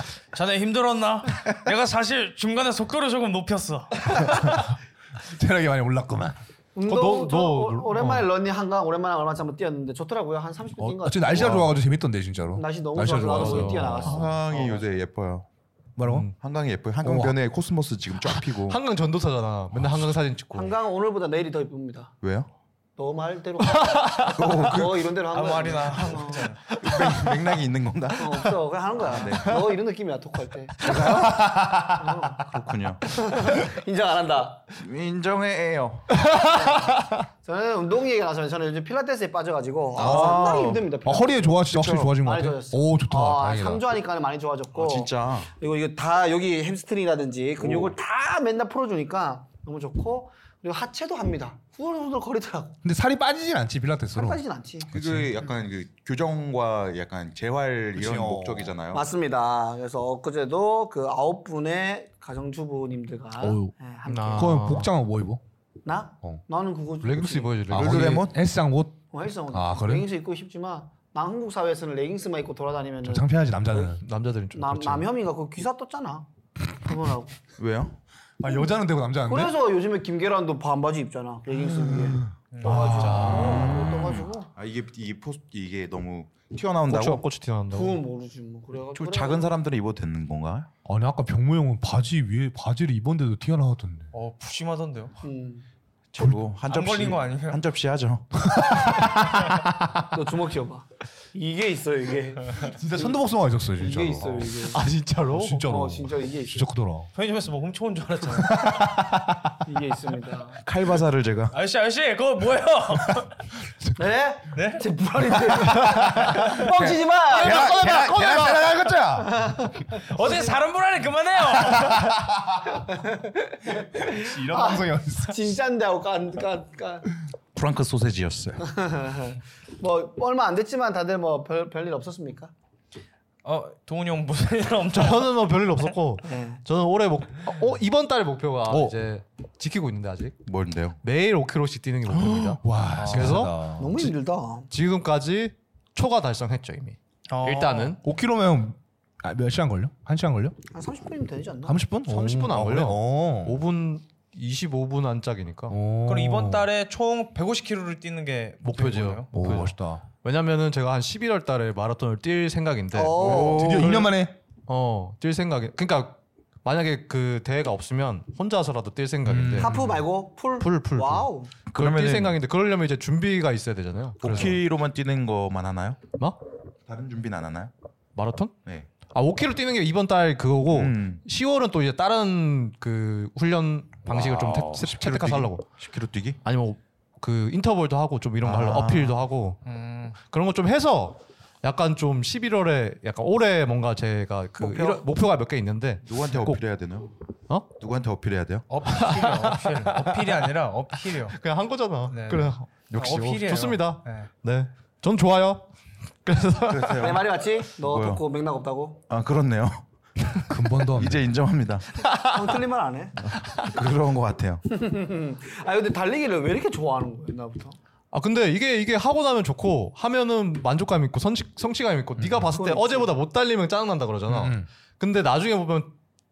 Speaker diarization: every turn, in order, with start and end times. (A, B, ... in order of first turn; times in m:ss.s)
0:00.3-0:04.4 A
0:04.2-0:04.7 B
0:05.2-0:06.4 B
0:06.8-0:11.7 C
0:06.9-0:08.2 D
0:10.8-0:14.2 B
0:11.3-0:11.7 D
0:12.5-0:14.9 C
0:13.3-0:14.3 D
0:14.0-0:15.5 E
0:16.0-0:16.3 B
0:16.0-0:16.3 D
0:16.4-0:18.8 E
0:17.0-0:17.4 B
0:18.3-0:20.8 D
0:19.8-0:20.1 B
0:20.5-0:22.2 C
0:22.2-0:22.5 E
0:23.0-0:26.5 C
0:23.7-0:24.4 D
0:24.2-0:25.0 E
0:25.3-0:26.6 A
0:26.7-0:27.4 D
0:26.8-0:29.6 E
0:28.2-0:31.0 C
0:30.8-0:31.8 E
0:30.8-0:32.4 B
0:30.9-0:31.3 D
0:32.0-0:34.7 C
0:32.5-0:33.1 E
0:34.8-0:36.2 E
0:36.1-0:37.2 D
0:36.3-0:52.8 C
0:40.0-0:40.9 E
0:40.0-0:43.8 B
0:41.7-0:42.1 E
0:44.8-0:45.5 E
0:47.6-0:48.0 E
0:52.8-0:55.4 B
0:54.1-0:54.9 C
0:54.9-0:59.1 E
0:58.0-0:58.8 B
0:58.9-1:04.9 C
1:03.4-1:03.7 B
1:04.1-1:04.9 D
1:04.4-1:05.4 B
1:05.8-1:07.6 C
1:07.0-1:08.3 D
1:07.7-1:10.1 B
1:07.7-1:08.4 E
1:09.1-1:14.0 C
1:13.0-1:14.0 B
1:14.0-1:15.1 D
1:14.5-1:17.4 C
1:17.6-1:18.0 E
1:18.4-1:19.5 B
1:19.3-1:24.5 C
1:21.5-1:24.3 B
1:22.5-1:23.5 A
1:24.6-1:27.2 E
1:26.9-1:28.0 D
1:27.7-1:29.5 C
1:28.9-1:30.7 E
1:30.8-1:34.1 B
1:34.1-1:35.2 A
1:35.2-1:35.6 C
1:36.1-1:38.7 E
1:36.7-1:37.6 A
1:38.4-1:40.1 B
1:40.1-1:43.2 C
1:42.6-1:44.6 B
1:43.8-1:44.8 C
1:44.7-1:45.7 D
1:45.3-1:47.1 B
1:45.6-1:46.7 C
1:47.1-1:48.8 A
1:48.4-1:49.6 B
1:49.6-1:50.6 C
1:50.6-1:51.6 E
1:51.5-1:53.4 A
1:54.0-1:58.0 C
1:54.5-1:54.9 A
1:55.5-1:59.4 B
1:57.3-1:58.7 D
1:59.2-2:00.6 C
2:00.0-2:02.1 A
2:01.7-2:02.7 B
2:02.7-2:07.1 C
2:04.0-2:05.4 B
2:07.6-2:08.6 E
2:08.6-2:12.5 C
2:13.4-2:15.5 A
2:14.9-2:20.4 D
2:16.2-2:16.6 C
2:18.7-2:19.0 B
2:20.4-2:21.0 E
2:21.0-2:23.6 D
2:22.1-2:24.1 B
2:23.0-2:23.3 A
2:23.7-2:24.7 C
2:24.7-2:28.0 D
2:27.3-2:28.0 A
2:28.0-2:30.6 B
2:30.7-2:31.8 C
2:31.6-2:33.6 B
2:32.0-2:35.8 D
2:35.7-2:36.6 B
2:36.1-2:39.3 A
2:38.6-2:43.5 D
2:39.3-2:40.0 B
2:42.9-2:44.0 C
2:43.2-2:44.1 E
2:43.3-2:44.3 B
2:44.7-2:49.8 D
2:49.2-2:50.0 B
2:49.6-2:51.5 C
2:50.6-2:54.6 D
2:51.7-2:52.4 E
2:54.2-2:56.0 E
2:56.9-2:57.7 E
2:58.1-2:58.6 D
2:59.1-3:05.6 D
3:00.7-3:01.2 E
3:04.1-3:05.0 B
3:04.9-3:06.4 E
3:06.4-3:09.6 D
3:08.4-3:09.2 E
3:09.6-3:10.2 A
3:10.2-3:16.6 D
3:14.6-3:15.1 E
3:16.0-3:17.1 E
3:17.8-3:18.6 E
3:18.7-3:21.4 A
3:18.9-3:20.5 D
3:21.1-3:25.7 D
3:22.1-3:24.3 A
3:23.0-3:23.2 E
3:26.2-3:27.2 D
3:26.7-3:28.2 E
3:26.9-3:29.0 C
3:29.1-3:31.9 E
3:30.5-3:31.2 B
3:32.0-3:33.3 C
3:33.2-3:34.6 E
3:34.7-3:37.8 C
3:38.1-3:45.9 D
3:42.2-3:42.5 B
3:42.5-3:43.1 C
3:44.3-3:44.7 B